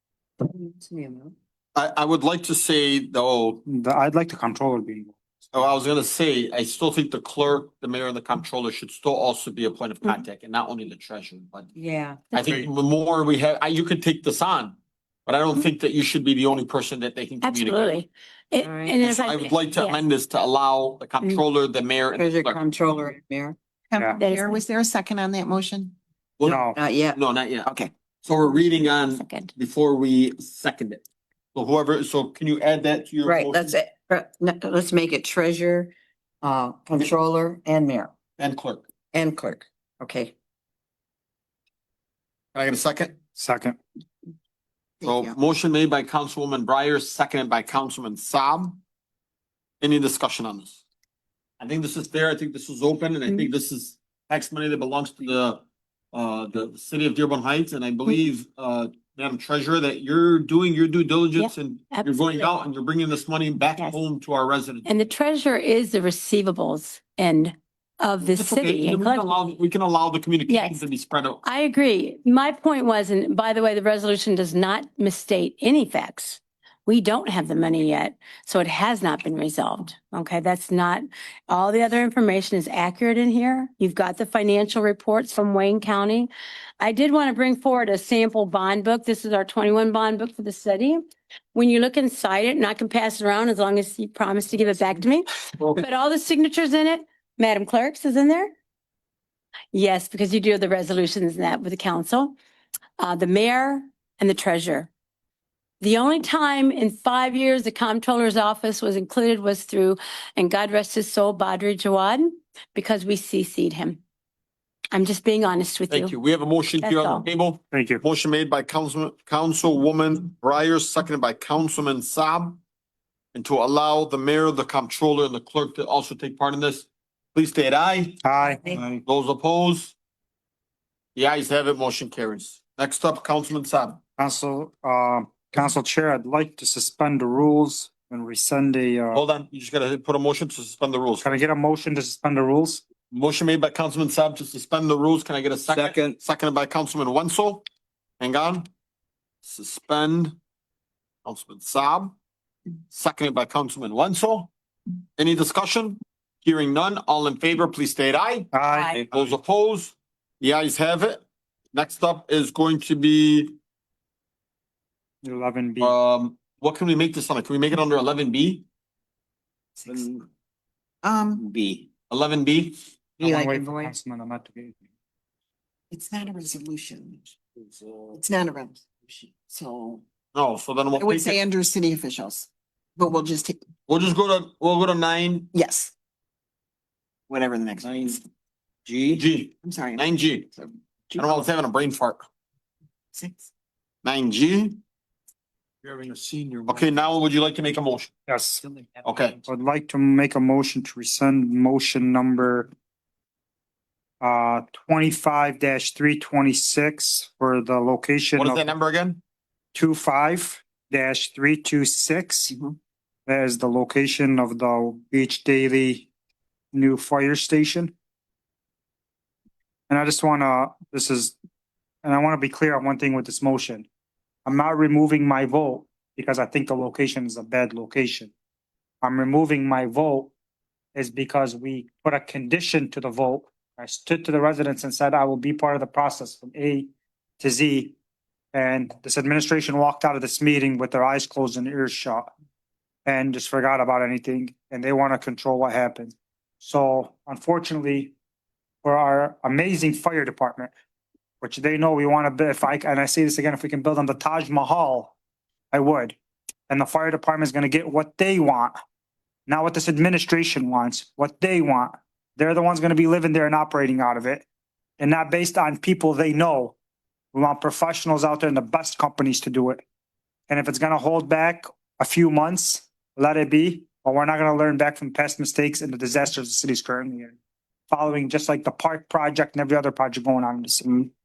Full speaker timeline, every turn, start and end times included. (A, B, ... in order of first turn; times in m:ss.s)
0:00.4-0:01.4 A
0:01.8-0:03.6 B
0:03.7-0:05.2 C
0:05.5-0:11.7 B
0:11.8-0:12.2 A
0:12.3-0:18.0 B
0:12.3-0:12.6 D
0:17.4-0:20.0 D
0:18.6-0:19.0 A
0:19.0-0:22.6 B
0:22.1-0:23.6 A
0:23.9-0:26.0 E
0:24.2-0:24.6 D
0:26.4-0:26.8 C
0:26.7-0:27.2 A
0:27.1-0:27.7 B
0:28.2-0:31.0 B
0:28.9-0:29.5 D
0:31.6-0:33.8 B
0:33.2-0:38.1 A
0:38.4-0:38.9 B
0:39.1-0:40.3 A
0:42.5-0:43.2 B
0:43.4-0:43.8 C
0:45.0-0:48.8 B
0:49.8-0:50.8 B
0:51.6-1:04.9 B
1:01.4-1:02.5 D
1:04.8-1:09.3 D
1:08.4-1:11.4 B
1:10.5-1:10.8 D
1:11.4-1:31.0 D
1:31.6-1:38.5 D
1:39.7-1:42.4 D
1:43.0-1:44.9 D
1:45.8-1:54.0 D
1:54.9-1:56.2 D
1:55.9-2:02.6 B
1:56.8-1:57.3 D
1:57.7-1:58.0 C
2:03.3-2:08.2 B
2:08.2-2:09.0 C
2:09.0-2:10.0 B
2:11.2-2:14.0 B
2:14.2-2:19.2 C
2:19.1-2:21.4 B
2:21.2-2:22.8 C
2:23.1-2:27.6 B
2:25.7-2:26.2 F
2:28.2-2:28.7 B
2:29.4-2:30.4 B
2:31.2-2:32.2 B
2:32.9-2:34.5 B
2:35.2-2:38.5 B
2:38.5-2:38.9 C
2:38.7-2:39.0 D
2:39.1-2:41.2 B
2:41.7-2:43.6 B
2:45.2-2:46.0 C
2:45.8-2:48.6 B
2:49.8-2:50.1 E
2:51.0-2:51.5 E
2:51.5-2:51.8 F
2:52.1-2:52.9 B
2:53.2-2:54.0 A
2:53.2-2:54.8 C
2:55.9-2:57.4 E
2:58.1-3:00.0 E
3:00.3-3:01.4 B
3:01.0-3:03.6 E
3:03.9-3:05.5 B
3:05.5-3:05.9 E
3:07.3-3:08.3 E
3:07.8-3:08.2 F
3:08.9-3:09.2 F
3:09.1-3:10.5 B
3:09.6-3:11.4 E
3:11.2-3:12.2 B
3:13.1-3:13.5 E
3:14.0-3:14.8 B
3:15.8-3:16.9 F
3:16.7-3:18.1 B
3:18.3-3:18.6 C
3:18.7-3:19.0 F
3:19.0-3:19.4 B
3:19.4-3:22.7 C
3:24.2-3:28.7 C
3:28.4-3:29.2 B
3:29.8-3:32.6 C
3:33.3-3:36.1 C
3:36.7-3:37.9 C
3:39.9-3:41.4 C
3:42.0-3:43.9 C
3:44.5-3:48.3 C
3:49.0-3:50.3 C
3:51.0-3:58.0 C
3:58.5-4:02.3 C
4:03.1-4:08.1 C
4:08.8-4:10.7 C
4:11.4-4:15.2 C
4:15.7-4:16.2 C
4:16.7-4:18.7 C
4:19.5-4:24.4 C
4:25.0-4:26.8 C
4:27.3-4:29.8 C
4:30.5-4:37.4 C
4:37.9-4:41.1 C